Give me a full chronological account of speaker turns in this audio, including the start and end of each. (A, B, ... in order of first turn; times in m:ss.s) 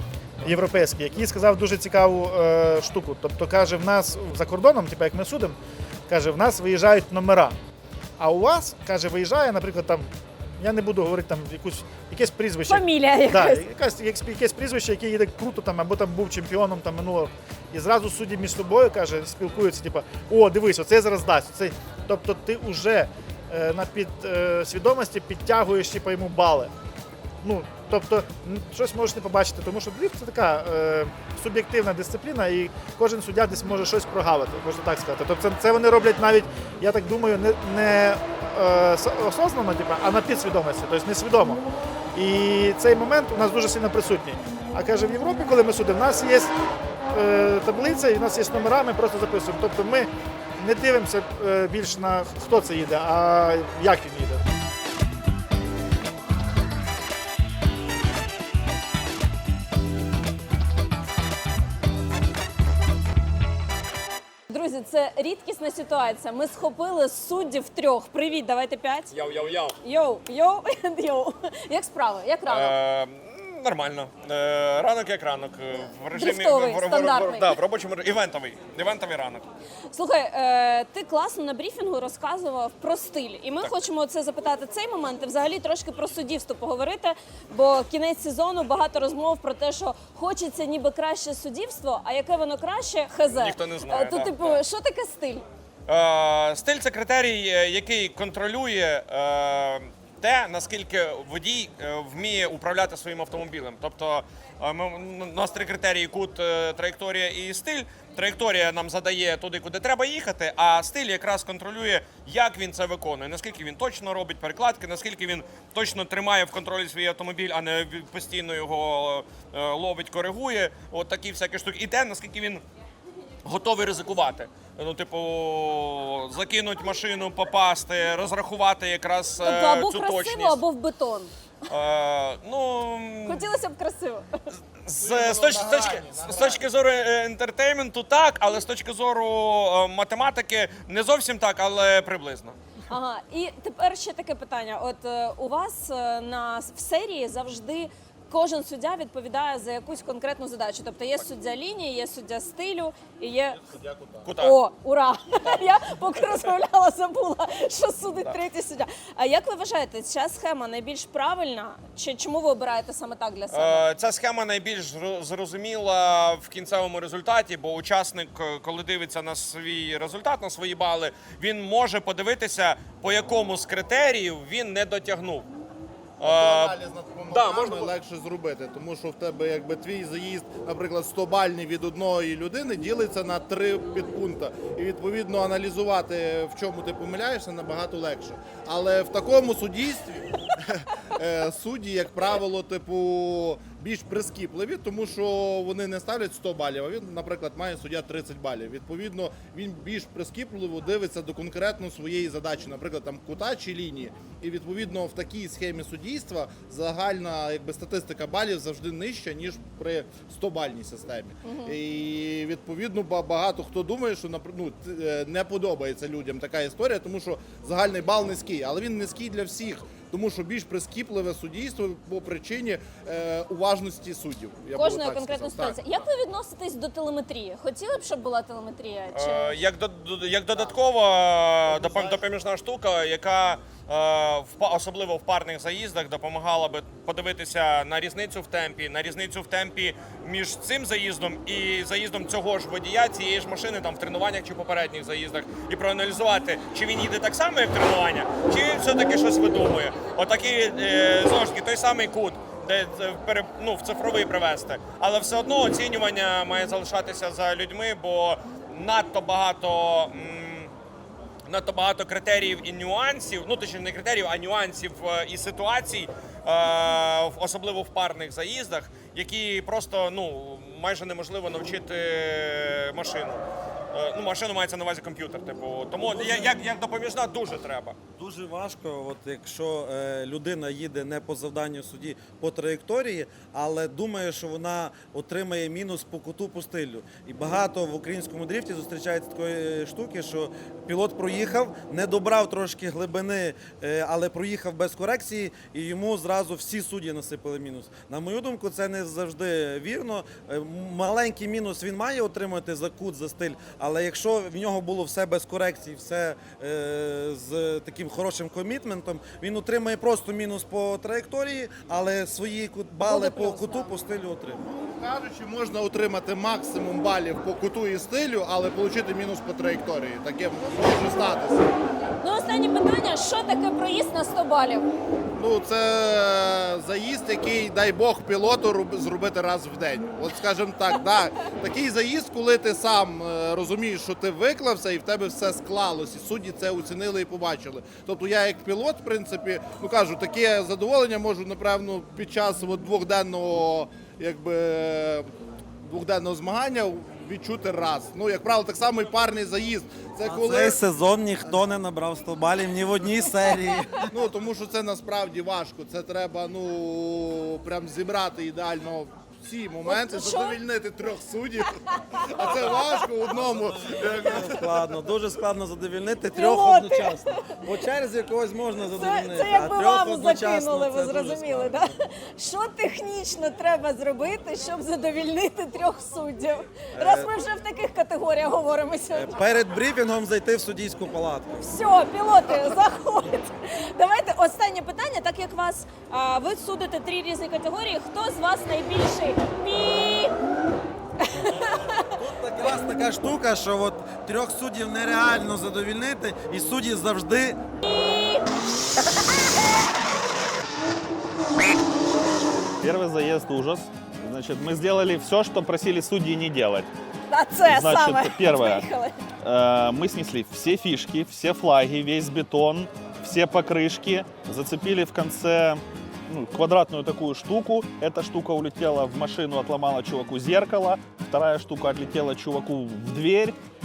0:00.4-0:05.6 A
0:06.1-0:07.6 A
0:08.2-0:26.7 A
0:12.7-0:13.6 B
0:27.4-0:41.6 A
0:42.2-0:46.5 A
0:47.1-0:54.4 A
1:04.5-1:09.2 B
1:09.1-1:09.7 C
1:09.8-1:12.8 B
1:12.5-1:19.4 C
1:16.1-1:17.6 B
1:19.9-1:35.4 B
1:33.3-1:34.6 C
1:35.9-2:02.6 C
2:03.4-2:10.6 C
2:09.4-2:11.3 B
2:11.7-2:13.5 C
2:13.3-2:14.3 B
2:14.8-2:22.6 C
2:15.0-2:16.7 D
2:22.9-2:33.6 B
2:33.6-2:34.3 D
2:34.2-2:34.6 C
2:34.4-2:43.9 B
2:43.5-2:55.5 C
2:56.2-2:57.9 C
2:56.2-3:45.8 D
3:31.4-3:31.8 B
3:44.8-3:49.6 B
3:49.1-4:20.7 C
3:51.7-3:52.2 D
4:21.5-4:38.0 C
4:36.1-4:36.5 E
4:38.2-5:14.7 E
5:13.0-5:13.9 B
5:14.6-5:21.7 D
5:22.2-5:24.9 B
5:25.4-5:45.3 D
5:45.8-5:50.8 D
5:50.2-5:54.1 E
5:54.1-6:04.8 D
5:59.8-6:00.6 B
6:03.4-6:11.9 E
6:06.3-6:07.4 B
6:08.9-6:19.3 B
6:17.0-6:17.3 E
6:19.1-6:21.6 E
6:21.6-6:30.3 B
6:31.2-6:31.7 B
6:32.2-6:37.6 E
6:37.8-6:38.4 B
6:42.8-6:46.9 F
6:47.3-6:49.1 B
6:47.6-6:48.8 F
6:49.4-7:03.6 F